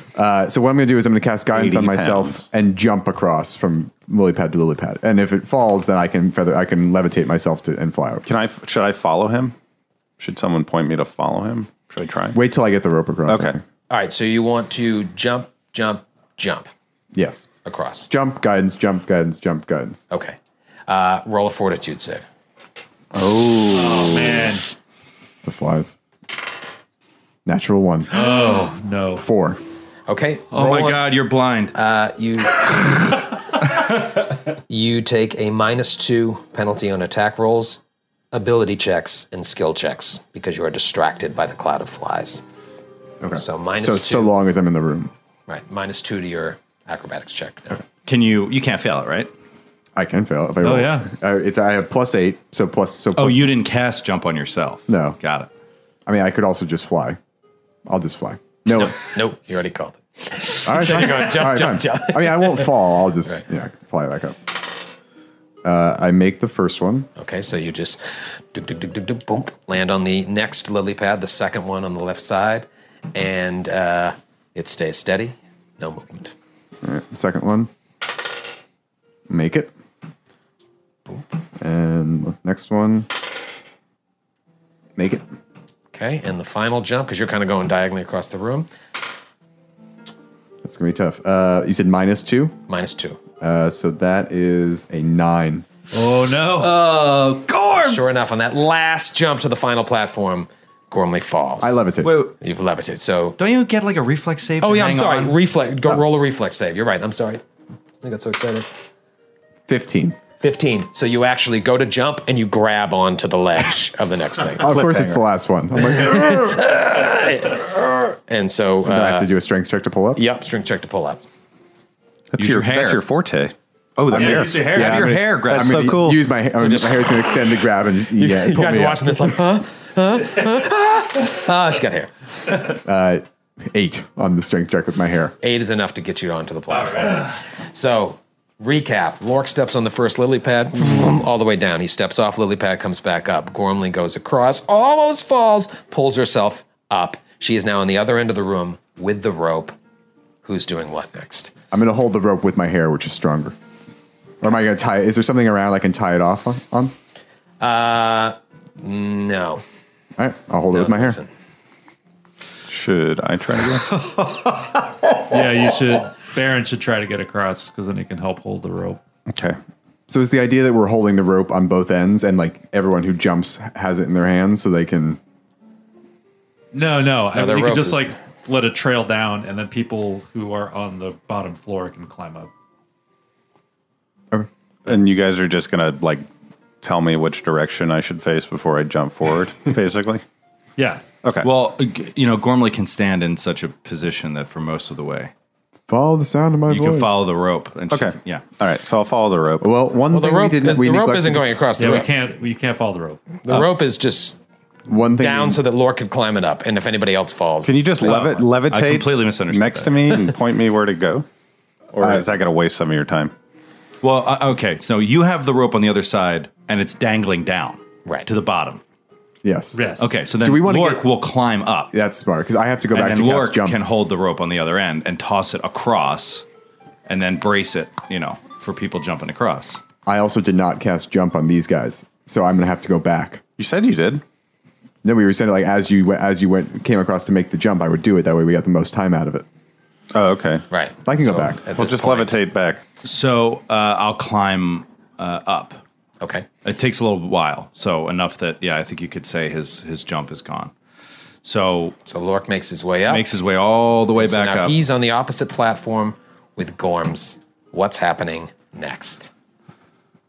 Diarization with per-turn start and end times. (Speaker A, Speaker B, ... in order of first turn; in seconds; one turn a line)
Speaker A: 0.1-8.2
Speaker B: 1.5-2.4
Speaker B: 8.2-9.5
Speaker B: 10.2-12.4
Speaker A: 12.3-13.6
Speaker B: 13.3-13.6
Speaker C: 13.9-16.7
Speaker A: 17.1-17.4
Speaker C: 17.6-18.1
Speaker A: 18.1-20.0
Speaker C: 20.1-20.4
Speaker C: 20.9-22.2
Speaker B: 23.1-24.5
Speaker D: 23.7-24.6
Speaker A: 25.4-25.9
Speaker A: 27.4-28.3
Speaker D: 28.1-29.2
Speaker A: 29.2-29.6
Speaker C: 30.1-31.1
Speaker E: 30.5-31.7
Speaker C: 31.7-33.2
Speaker C: 34.7-37.8
Speaker C: 38.3-42.4
Speaker A: 43.2-45.1
Speaker C: 43.4-44.3
Speaker C: 45.5-47.8
Speaker E: 48.0-49.3
Speaker A: 49.9-53.5
Speaker D: 50.6-51.1
Speaker E: 53.1-55.5
Speaker A: 54.9-55.2
Speaker A: 56.0-57.2
Speaker A: 57.9-59.0
Speaker C: 58.7-62.7
Speaker A: 60.6-64.4
Speaker A: 65.6-67.1
Speaker C: 67.2-76.3
Speaker A: 76.8-77.7
Speaker A: 79.3-79.7
Speaker A: 81.6-83.1
Speaker A: 85.0-85.2
Speaker C: 85.9-88.7
Speaker A: 90.6-92.5
Speaker C: 92.7-93.2
Speaker A: 93.4-95.7
Speaker D: 95.9-96.8
Speaker E: 96.6-98.1
Speaker C: 97.7-101.8
Speaker A: 101.6-102.2
Speaker E: 102.0-102.3
Speaker C: 102.4-103.4
Speaker E: 103.4-105.4
Speaker C: 104.6-107.4
Speaker C: 108.0-108.7
Speaker A: 109.7-110.2
Speaker C: 110.4-114.7
Speaker A: 114.6-116.6
Speaker B: 114.7-115.1
Speaker C: 115.9-119.3
Speaker A: 118.8-120.2
Speaker C: 120.2-121.2
Speaker B: 122.3-126.2
Speaker E: 122.4-123.0
Speaker D: 124.1-125.3
Speaker A: 124.1-129.3
Speaker E: 124.2-126.0
Speaker C: 126.6-127.4
Speaker C: 128.1-132.1
Speaker A: 132.7-135.3
Speaker C: 135.4-149.7
Speaker C: 150.4-151.5
Speaker A: 151.7-153.6
Speaker A: 154.4-156.9
Speaker C: 157.6-159.6
Speaker A: 160.2-161.2
Speaker C: 160.7-161.3
Speaker B: 162.7-163.9
Speaker D: 165.3-169.0
Speaker B: 169.3-169.6
Speaker A: 170.1-175.2
Speaker D: 176.7-182.5
Speaker C: 177.3-178.1
Speaker B: 184.8-186.2
Speaker B: 186.8-190.2
Speaker D: 190.8-191.0
Speaker B: 191.2-191.5
Speaker E: 191.4-195.3
Speaker A: 195.9-197.2
Speaker E: 196.7-198.4
Speaker B: 197.9-199.7
Speaker A: 199.6-201.5
Speaker C: 200.1-202.1
Speaker D: 201.8-203.6
Speaker C: 203.4-204.4
Speaker A: 204.9-205.6
Speaker C: 205.2-208.5
Speaker B: 207.6-211.2
Speaker E: 208.0-210.3
Speaker B: 211.9-213.3
Speaker A: 212.0-212.3
Speaker E: 214.0-218.8
Speaker A: 219.4-219.8
Speaker D: 219.7-220.1
Speaker E: 220.0-221.9
Speaker A: 220.4-221.1
Speaker A: 221.9-223.8
Speaker E: 222.9-226.4
Speaker E: 227.1-229.8
Speaker A: 230.1-233.4
Speaker B: 233.6-234.2
Speaker A: 235.0-239.4
Speaker B: 240.1-240.7
Speaker C: 240.7-242.4
Speaker A: 241.0-241.6
Speaker B: 241.7-242.8
Speaker E: 243.0-245.8
Speaker C: 246.2-246.4
Speaker E: 246.6-250.7
Speaker E: 251.4-252.0
Speaker C: 252.0-253.2
Speaker E: 253.1-254.8
Speaker C: 254.2-259.3